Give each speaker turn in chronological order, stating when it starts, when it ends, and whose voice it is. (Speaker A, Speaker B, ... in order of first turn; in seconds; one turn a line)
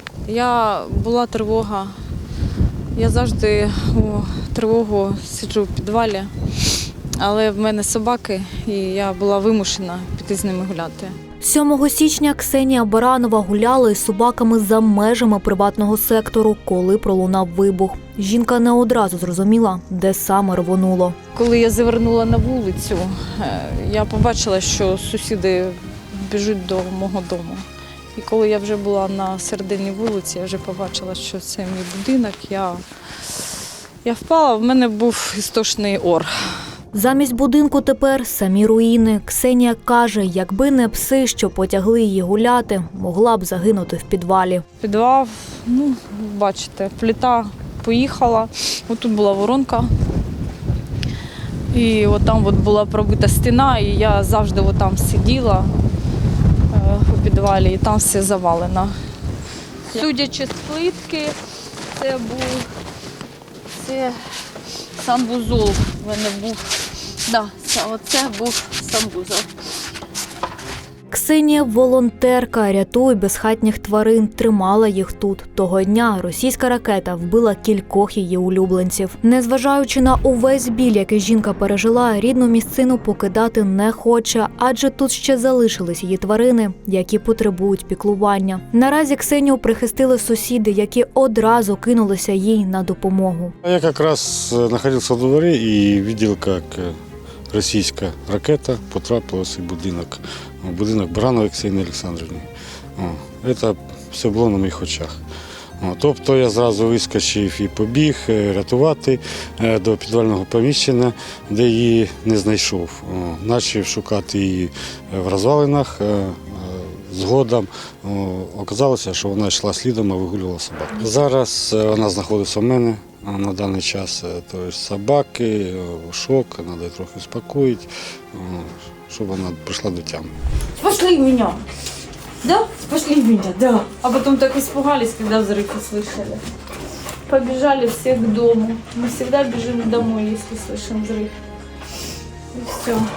Speaker A: 0.2-1.9
Speaker A: 2.9-6.3
Speaker A: 7.2-11.1
Speaker B: 11.4-21.2
Speaker A: 21.3-33.5
Speaker A: 34.0-36.3
Speaker B: 36.9-44.6
Speaker A: 44.8-49.9
Speaker A: 51.7-55.8
Speaker A: 56.7-58.9
Speaker A: 59.9-61.4
Speaker A: 61.9-62.7
Speaker A: 63.8-64.2
Speaker A: 65.0-69.5
Speaker B: 71.1-93.5
Speaker C: 93.6-97.0
Speaker C: 97.5-105.2
Speaker C: 105.8-130.3
Speaker A: 130.8-131.6
Speaker A: 132.4-136.4
Speaker A: 137.2-141.3
Speaker A: 142.5-143.1